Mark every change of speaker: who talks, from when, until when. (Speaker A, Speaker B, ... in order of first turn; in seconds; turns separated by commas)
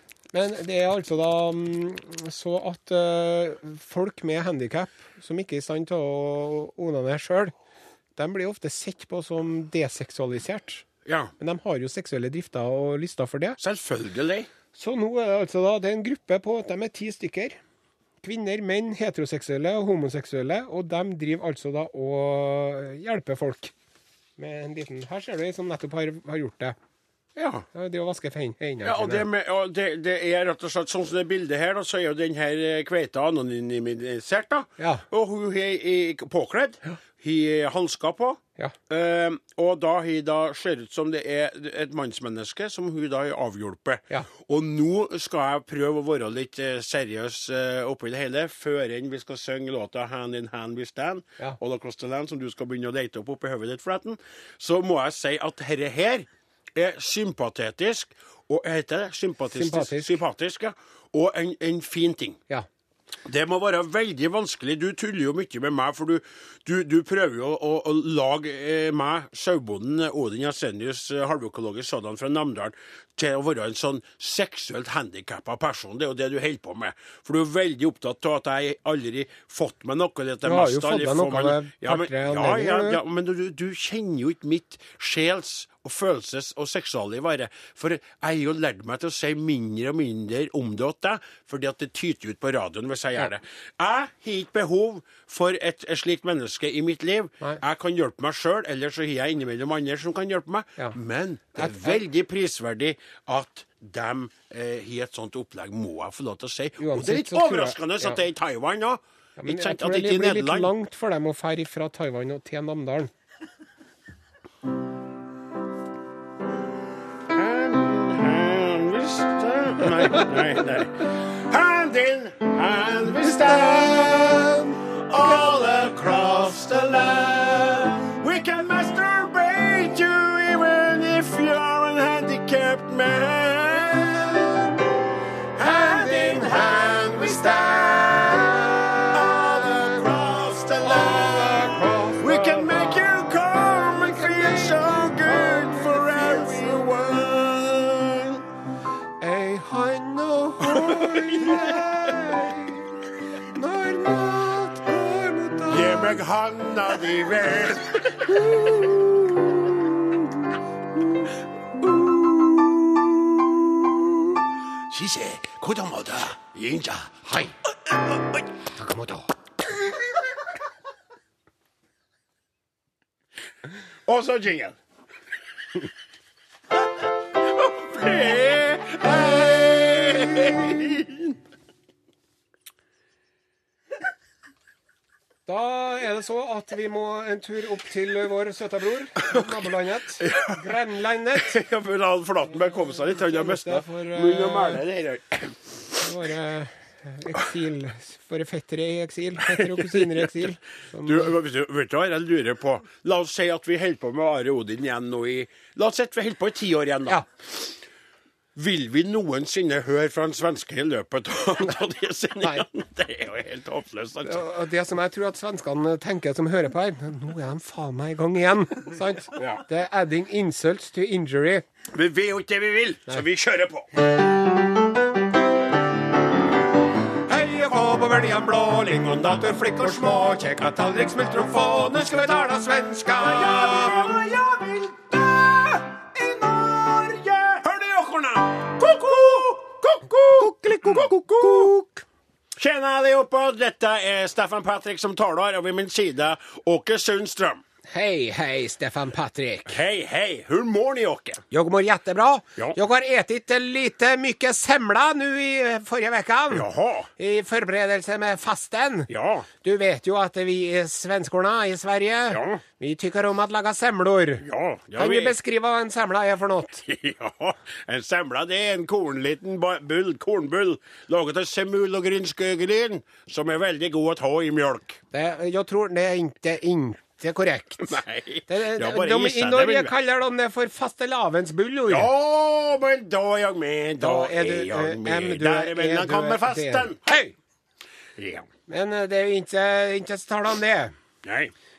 Speaker A: 0.3-7.5, Speaker A: 8.2-10.8, Speaker B: 11.0-11.3, Speaker A: 11.4-13.6, Speaker B: 13.6-14.5, Speaker A: 14.7-17.6, Speaker A: 18.2-23.7, Speaker A: 24.4-26.8, Speaker B: 27.3-27.7, Speaker A: 27.7-29.2, Speaker B: 28.8-62.4, Speaker A: 34.8-35.0, Speaker A: 59.5-60.1, Speaker B: 63.2-110.7, Speaker A: 80.4-83.0, Speaker A: 101.5-102.0, Speaker A: 106.8-108.2, Speaker A: 109.4-113.1, Speaker B: 117.3-134.6, Speaker A: 123.1-124.8, Speaker A: 134.0-134.8, Speaker B: 135.6-148.4, Speaker A: 135.6-140.1, Speaker A: 140.8-143.2, Speaker A: 143.8-146.9, Speaker A: 149.2-156.2, Speaker B: 150.6-152.3, Speaker B: 155.7-158.4, Speaker A: 158.3-159.1, Speaker B: 164.3-168.5, Speaker A: 168.7-169.3, Speaker B: 174.1-174.8, Speaker B: 177.3-181.4, Speaker A: 185.5-191.6, Speaker B: 189.2-189.5, Speaker B: 190.2-190.7, Speaker B: 191.3-195.8, Speaker A: 192.5-194.8, Speaker A: 196.0-201.3, Speaker B: 199.5-200.5, Speaker B: 201.0-207.7, Speaker B: 208.5-214.4, Speaker A: 214.2-221.6, Speaker B: 219.3-219.6, Speaker B: 221.9-223.9, Speaker A: 227.3-234.2, Speaker B: 228.9-232.4, Speaker B: 233.0-241.7, Speaker A: 240.3-242.0, Speaker B: 242.6-247.6, Speaker A: 247.9-249.8, Speaker B: 249.7-251.4, Speaker A: 251.5-256.6, Speaker B: 256.5-257.1, Speaker A: 257.2-259.1, Speaker B: 259.1-259.5, Speaker A: 259.6-264.4, Speaker B: 262.3-262.6, Speaker B: 264.4-265.4, Speaker A: 264.9-266.8, Speaker B: 266.8-275.0, Speaker A: 275.1-282.1, Speaker B: 277.8-279.9, Speaker B: 281.9-287.0, Speaker A: 284.0-287.3, Speaker B: 288.2-288.5, Speaker A: 288.7-290.9, Speaker B: 291.2-291.5